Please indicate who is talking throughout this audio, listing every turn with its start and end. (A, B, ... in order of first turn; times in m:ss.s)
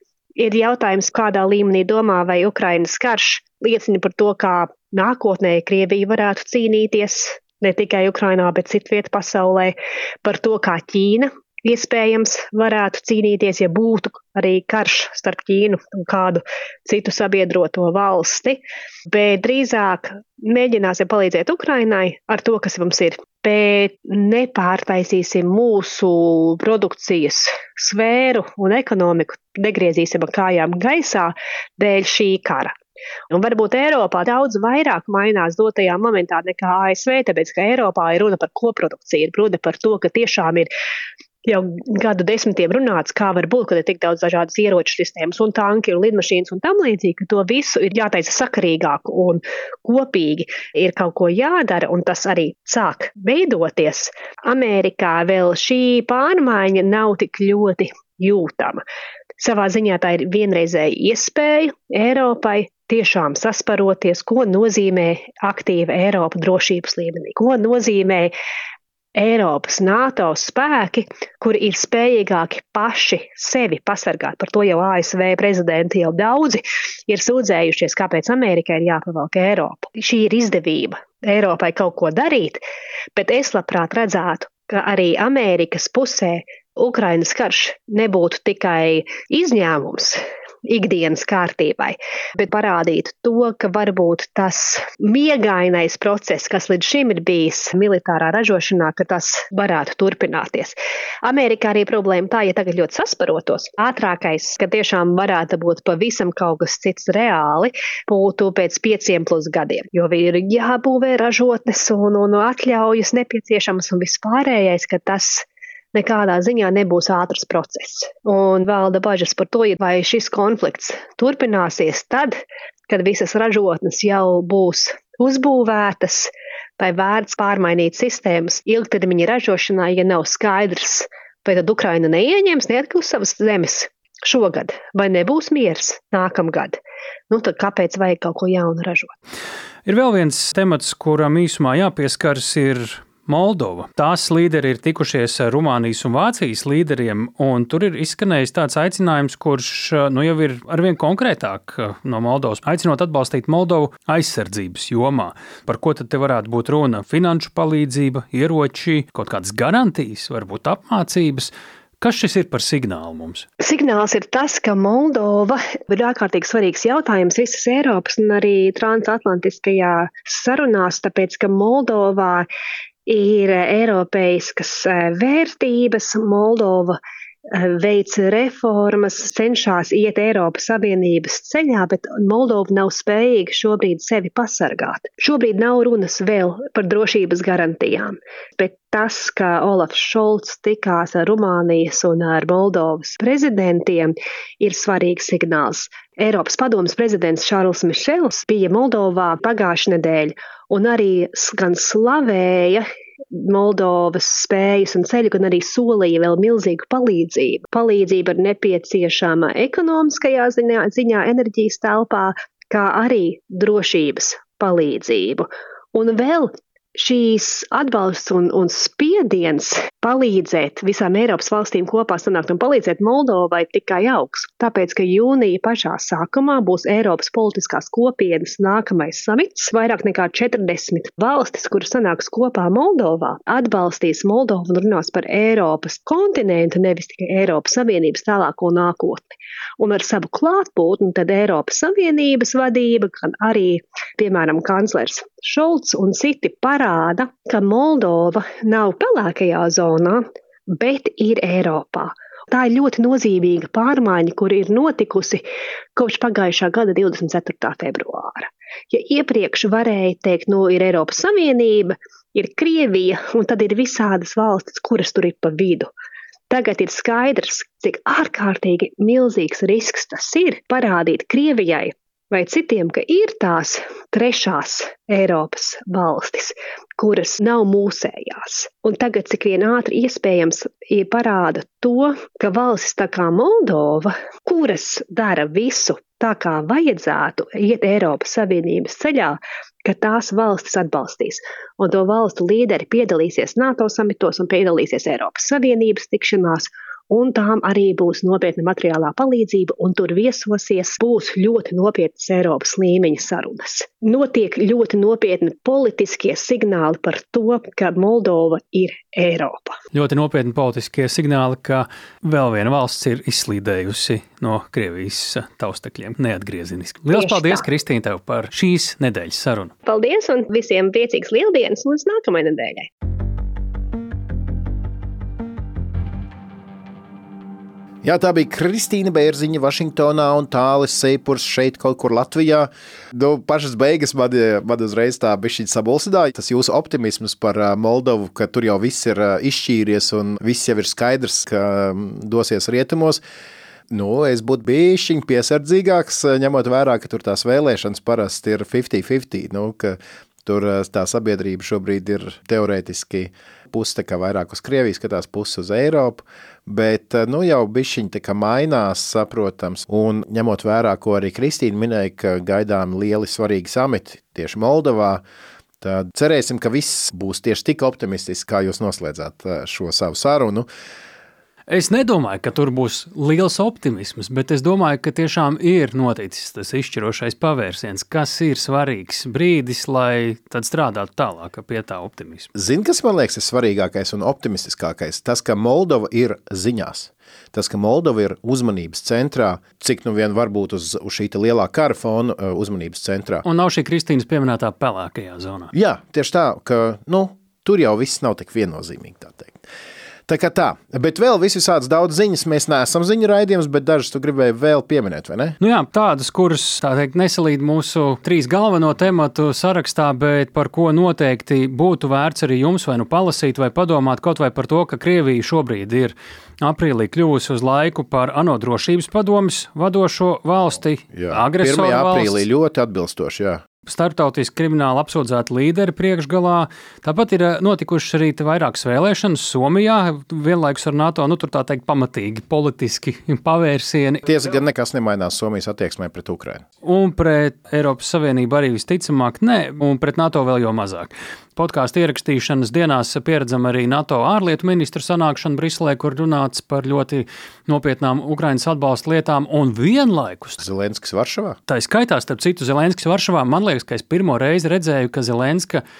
0:00.4-0:32.7 A
0:33.3-0:40.7 A
0:41.4-0:58.8 A
0:59.4-1:08.3 A
1:09.2-1:22.6 A
1:23.2-2:16.8 A
2:17.3-2:19.2 A
2:19.8-2:43.5 B
2:43.6-2:52.5 A
2:53.1-2:57.0 A
2:57.5-3:59.3 A
3:59.8-4:15.4 A
4:16.0-4:25.9 A
4:26.5-5:09.8 A
5:09.9-5:19.7 B
5:17.1-5:17.6 A
5:19.9-5:22.9 A
5:28.0-5:43.2 C
5:43.9-6:05.2 C
6:05.8-6:10.7 C
6:11.7-6:22.5 B
6:22.6-6:33.4 C
6:33.4-6:35.7 B
6:35.7-6:39.6 C
6:40.3-6:45.6 C
6:45.6-7:02.4 B
7:01.1-7:03.6 C
7:03.8-7:14.2 B
7:14.2-7:16.6 C
7:16.8-7:30.6 B
7:30.6-7:31.6 C
7:31.7-7:35.8 B